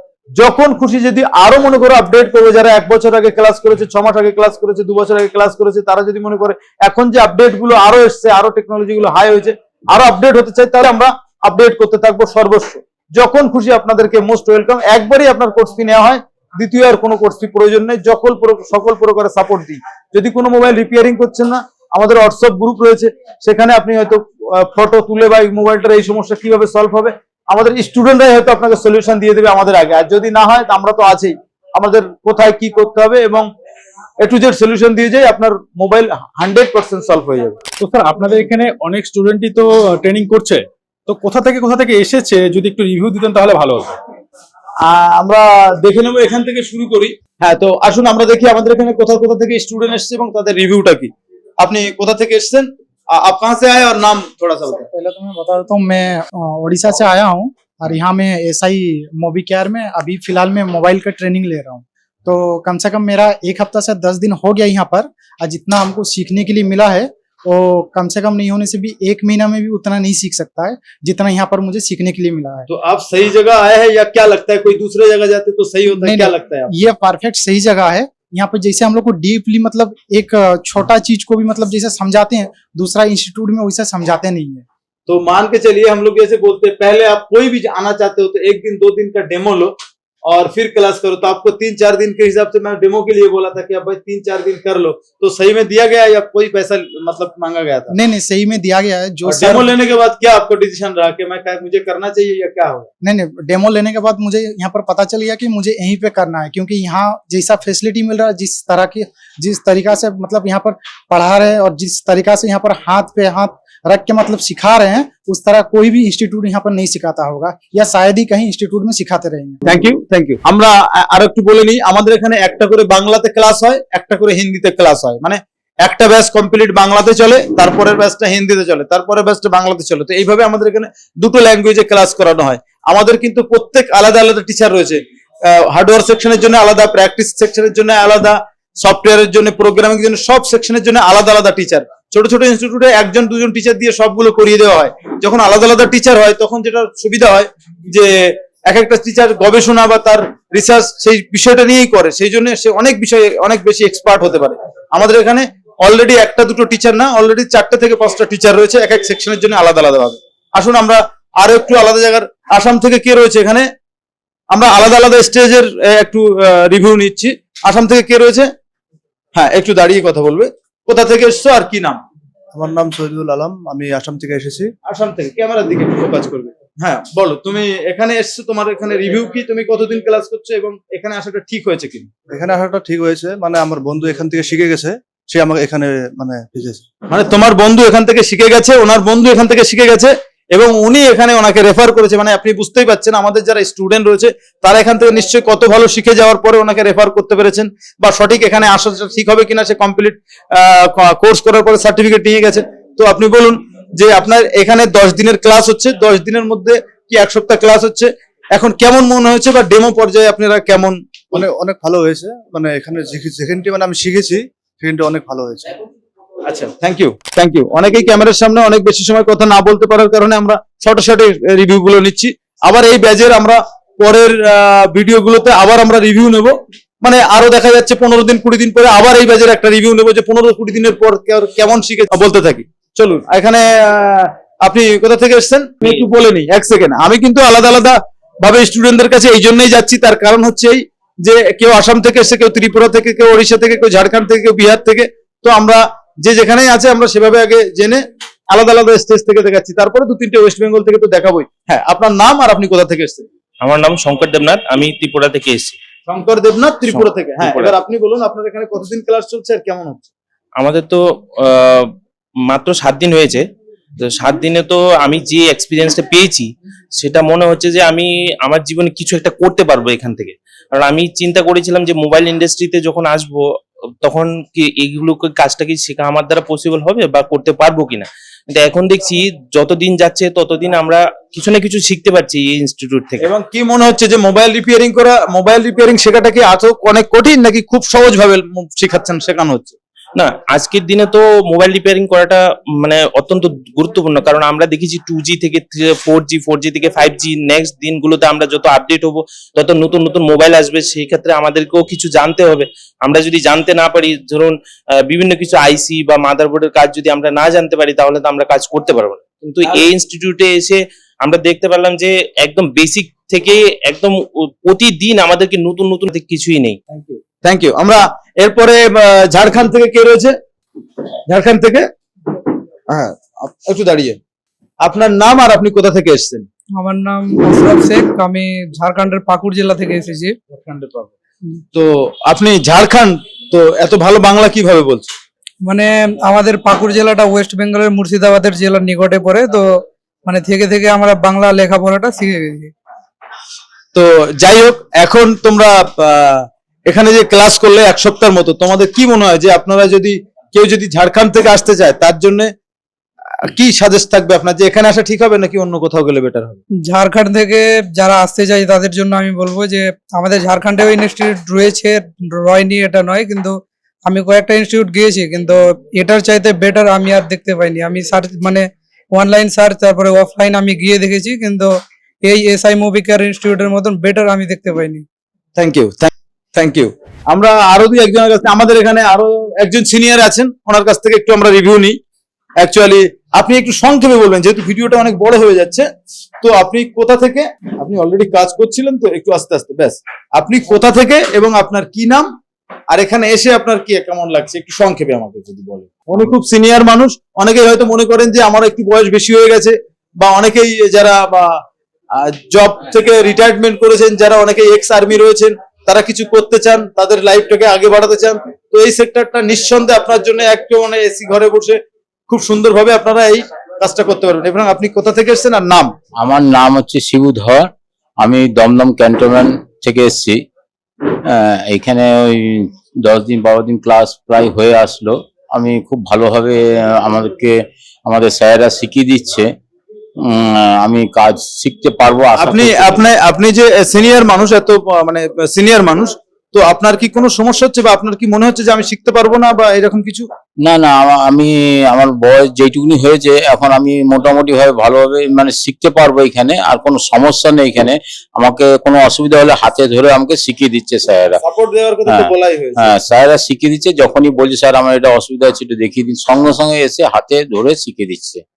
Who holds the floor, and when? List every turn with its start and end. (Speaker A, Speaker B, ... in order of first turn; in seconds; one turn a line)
Speaker A: 0.4-33.5
Speaker A: 34.2-37.6
Speaker B: 37.8-44.0
Speaker A: 44.8-54.9
Speaker C: 54.7-72.7
Speaker A: 72.7-76.7
Speaker C: 76.0-84.7
Speaker A: 85.1-89.7
Speaker A: 90.3-97.9
Speaker C: 97.9-99.7
Speaker A: 99.2-102.9
Speaker C: 103.0-119.6
Speaker A: 119.7-148.1
Speaker A: 148.7-163.7
Speaker A: 164.5-168.5
Speaker A: 169.3-172.0
Speaker D: 172.5-174.7
Speaker A: 174.9-182.1
Speaker D: 182.3-186.8
Speaker A: 187.1-211.0
Speaker D: 211.3-215.8
Speaker A: 216.5-253.3
Speaker E: 253.6-255.8
Speaker A: 256.1-260.1
Speaker E: 256.9-257.7
Speaker E: 260.6-261.9
Speaker E: 262.5-263.4
Speaker E: 264.0-266.5
Speaker E: 267.0-273.4
Speaker E: 274.0-283.2
Speaker A: 283.2-289.8
Speaker E: 290.2-304.6
Speaker E: 305.1-316.8
Speaker A: 316.9-320.4
Speaker A: 321.3-321.9
Speaker A: 322.9-324.2
Speaker A: 324.8-326.5
Speaker F: 326.8-330.4
Speaker A: 330.5-331.1
Speaker A: 331.7-335.1
Speaker F: 335.6-342.7
Speaker A: 343.9-352.5
Speaker A: 353.4-356.6
Speaker F: 356.8-375.1
Speaker A: 375.6-382.0
Speaker A: 382.6-385.9
Speaker A: 386.4-392.3
Speaker A: 392.9-401.6
Speaker A: 402.2-415.9
Speaker G: 416.2-417.7
Speaker G: 418.2-420.4
Speaker G: 421.3-429.5
Speaker G: 430.2-433.1
Speaker A: 432.4-440.3
Speaker G: 440.6-451.4
Speaker A: 451.4-452.9
Speaker G: 452.1-458.4